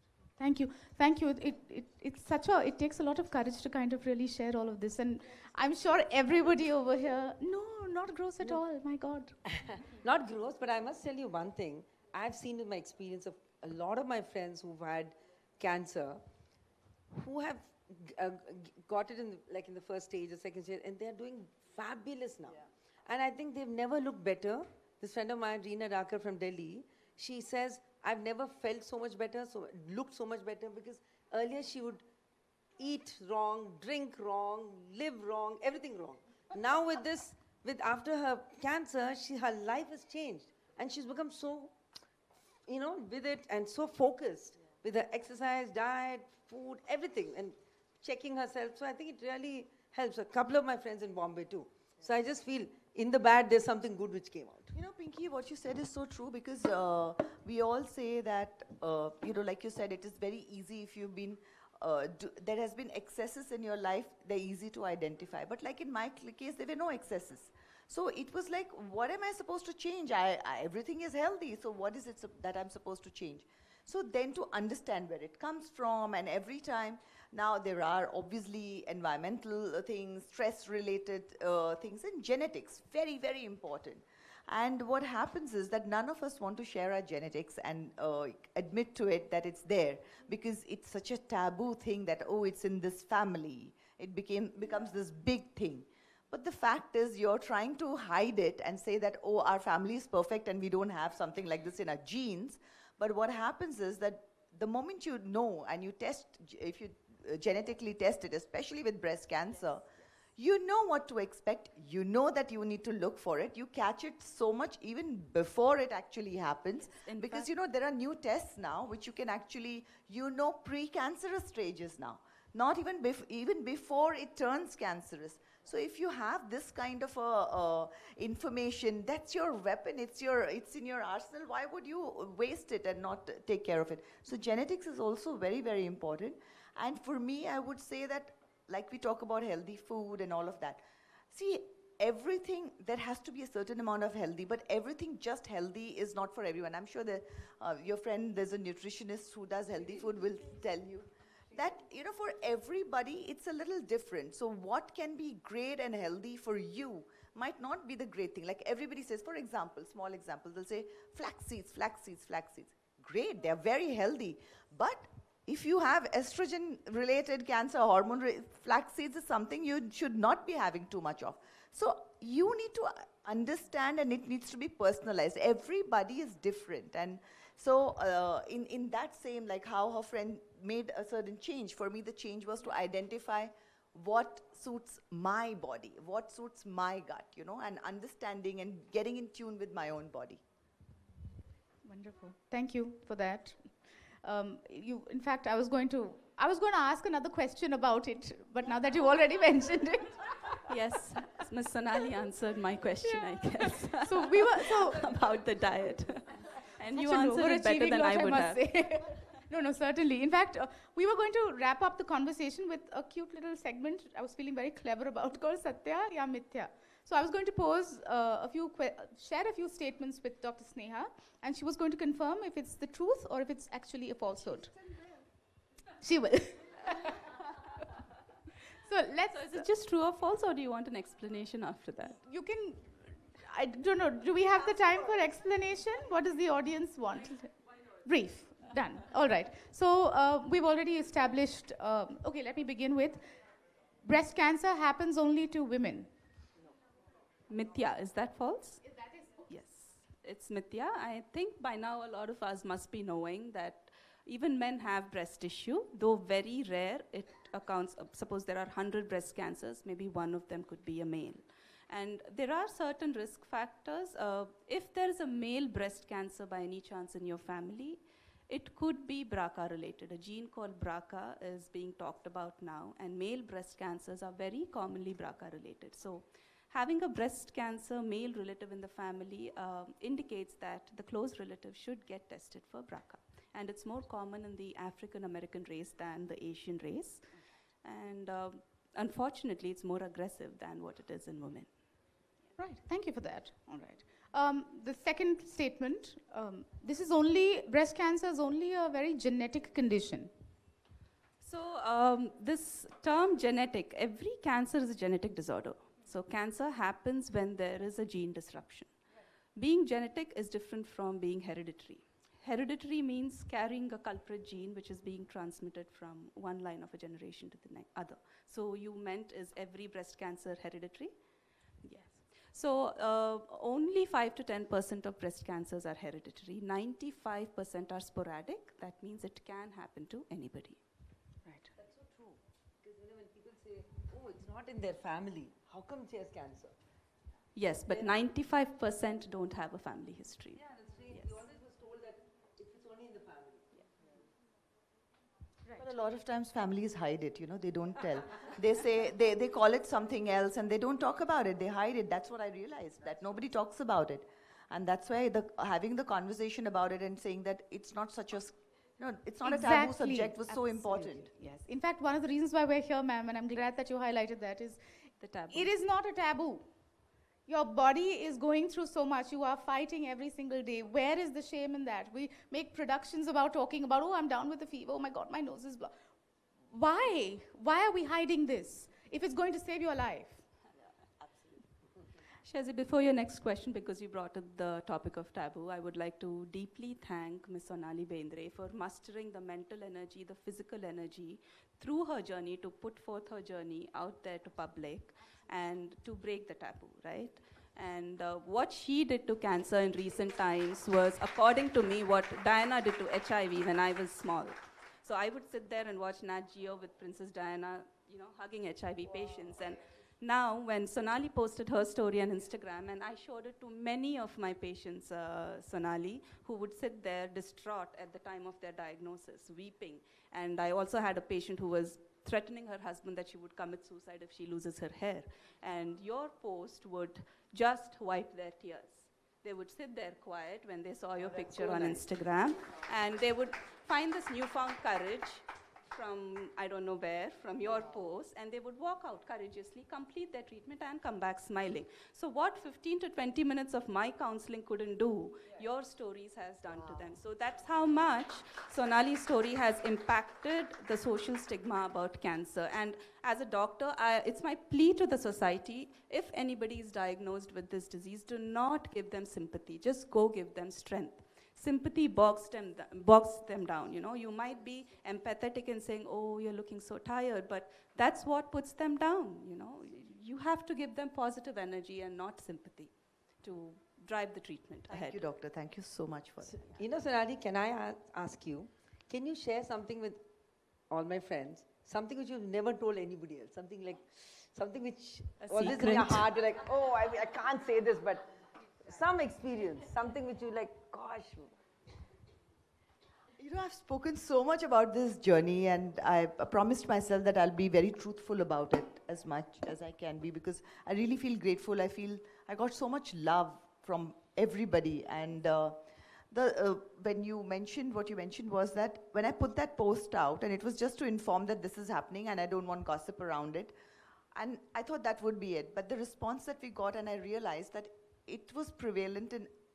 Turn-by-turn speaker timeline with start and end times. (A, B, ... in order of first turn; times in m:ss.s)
0:00.4-0:09.4 A
0:10.0-0:16.2 B
0:17.1-0:32.0 B
0:32.8-0:41.7 B
0:42.7-0:54.7 B
0:54.7-3:10.4 C
1:56.9-1:57.5 D
3:11.8-3:20.7 A
3:20.7-3:28.6 D
3:23.1-3:25.0 A
3:26.9-3:44.7 A
3:46.0-3:47.2 A
3:48.8-3:49.7 A
3:49.3-3:52.2 D
3:52.1-4:03.2 A
4:04.0-4:06.1 A
4:07.5-4:08.8 D
4:09.0-4:09.5 A
4:09.5-4:47.2 D
4:47.8-4:51.7 D
4:52.6-5:00.3 A
5:01.4-5:08.9 D
5:09.6-5:21.1 D
5:21.8-5:30.8 D
5:31.4-5:31.7 A
5:31.8-5:36.7 B
5:37.5-5:40.6 D
5:37.9-5:38.2 B
5:40.5-5:43.6 B
5:45.7-6:01.3 C
5:59.4-6:04.8 A
6:01.3-6:01.7 D
6:05.2-6:05.7 D
6:05.5-6:06.7 A
6:07.5-6:15.9 A
6:16.7-6:20.4 A
6:21.2-6:21.6 C
6:22.4-7:55.2 D
7:54.9-7:56.8 C
7:56.4-8:00.2 B
8:00.9-8:08.3 B
8:05.4-8:06.3 D
8:08.8-8:11.5 B
8:13.4-8:25.8 C
8:26.3-8:33.7 C
8:34.3-8:39.5 C